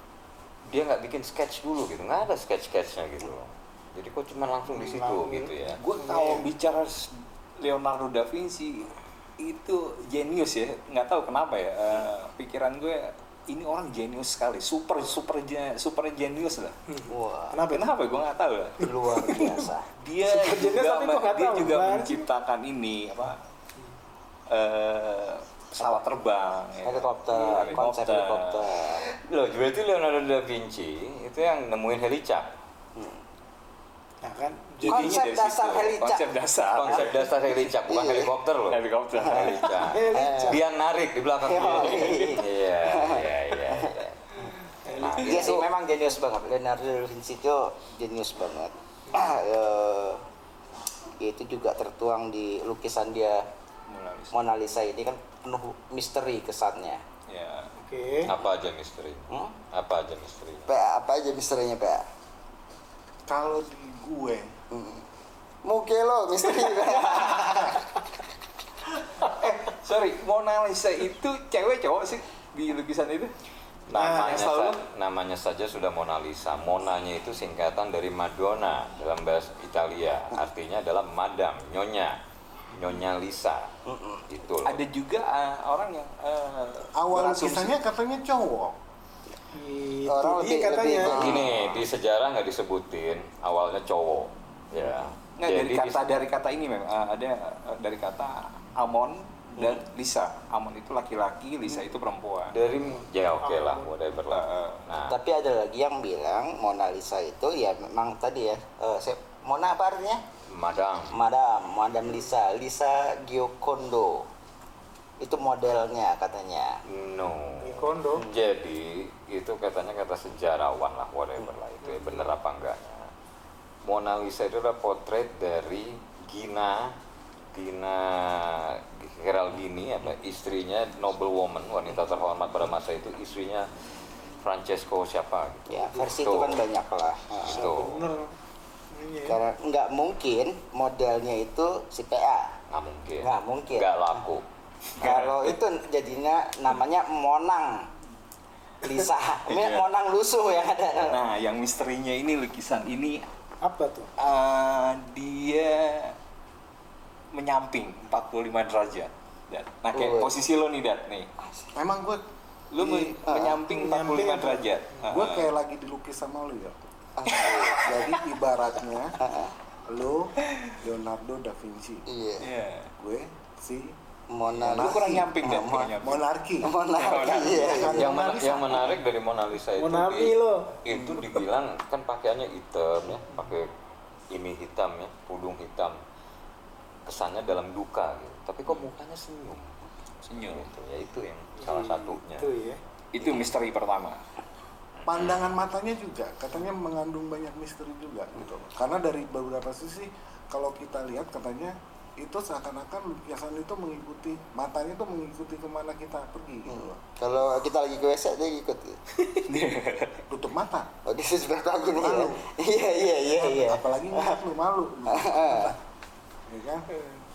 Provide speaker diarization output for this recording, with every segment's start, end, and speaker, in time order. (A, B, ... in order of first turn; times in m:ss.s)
0:00.7-0:05.8 A
0:04.7-0:06.5 B
0:05.8-0:16.8 C
0:16.9-0:17.9 B
0:17.1-0:17.6 D
0:17.7-0:23.4 C
0:18.8-0:19.9 D
0:19.3-0:19.6 B
0:20.2-0:22.3 B
0:24.5-0:28.8 C
0:25.8-0:26.1 D
0:26.8-0:29.1 D
0:29.1-0:32.5 A
0:33.0-0:33.2 D
0:34.2-0:35.2 B
0:34.8-0:37.3 C
0:34.8-0:36.3 D
0:36.7-0:44.4 A
0:36.8-0:37.1 D
0:37.8-0:38.3 D
0:38.7-0:39.8 C
0:39.2-0:40.6 D
0:39.7-0:40.6 B
0:41.4-0:44.0 D
0:41.6-0:42.4 C
0:44.4-0:45.5 B
0:45.0-0:45.7 A
0:45.2-0:50.2 D
0:45.2-0:45.6 C
0:51.2-0:53.4 D
0:53.9-0:54.3 C
0:54.3-0:57.0 D
0:57.3-0:57.7 C
0:57.8-0:58.3 B
0:58.2-1:00.7 A
0:59.3-0:59.6 D
1:00.7-1:02.1 D
1:03.3-1:04.5 E
1:04.7-1:05.0 D
1:05.6-1:07.8 D
1:06.8-1:07.2 C
1:09.2-1:13.3 C
1:13.9-1:22.2 A
1:13.9-1:14.4 B
1:14.1-1:14.8 C
1:22.7-1:23.7 A
1:23.8-1:24.2 D
1:24.3-1:24.8 A
1:24.6-1:27.8 C
1:27.0-1:28.7 E
1:29.5-1:31.3 B
1:30.1-1:31.8 D
1:31.0-1:36.0 A
1:35.4-1:42.6 C
1:42.5-1:45.2 A
1:43.4-1:43.9 B
1:44.3-1:44.8 C
1:45.1-1:50.2 D
1:50.5-1:51.2 A
1:51.1-1:54.3 D
1:55.2-1:56.8 D
1:56.9-2:03.1 A
1:57.6-1:58.2 B
2:03.8-2:07.0 A
2:07.5-2:13.7 A
2:14.4-2:16.6 A
2:15.7-2:17.8 D
2:17.4-2:18.0 A
2:17.4-2:18.3 B
2:18.9-2:19.4 B
2:19.3-2:22.6 D
2:22.7-2:24.4 A
2:23.2-2:23.9 D
2:25.0-2:25.6 C
2:25.0-2:27.9 D
2:28.8-2:31.2 D
2:29.5-2:29.8 C
2:31.0-2:33.3 C
2:33.6-2:34.1 B
2:34.2-2:36.2 C
2:37.3-2:41.3 C
2:39.9-2:40.3 D
2:41.7-2:42.2 E
2:42.7-2:45.5 C
2:42.8-2:43.4 E
2:43.3-2:43.6 D
2:43.7-2:44.6 B
2:45.1-2:46.8 E
2:47.2-2:47.9 D
2:47.7-2:49.2 E
2:49.2-2:49.5 D
2:49.9-2:52.1 E
2:52.1-2:52.5 D
2:52.4-2:52.9 C
2:53.0-2:53.9 E
2:54.3-2:56.0 D
2:54.6-2:56.2 C
2:54.6-2:55.1 E
2:56.0-2:56.7 E
2:56.6-2:58.2 D
2:56.9-2:58.0 C
2:57.5-2:58.8 E
2:57.9-3:03.7 A
2:59.8-3:00.7 B
3:04.3-3:06.0 A
3:07.0-3:09.7 A
3:10.2-3:10.7 C
3:10.4-3:12.5 A
3:11.6-3:12.8 B
3:13.1-3:14.2 C
3:15.0-3:15.3 A
3:15.0-3:27.0 E
3:26.7-3:29.0 D
3:29.4-3:30.2 C
3:29.5-3:30.9 E
3:31.0-3:34.4 D
3:31.9-3:32.5 E
3:33.2-3:35.8 E
3:35.1-3:35.7 D
3:36.5-3:36.9 E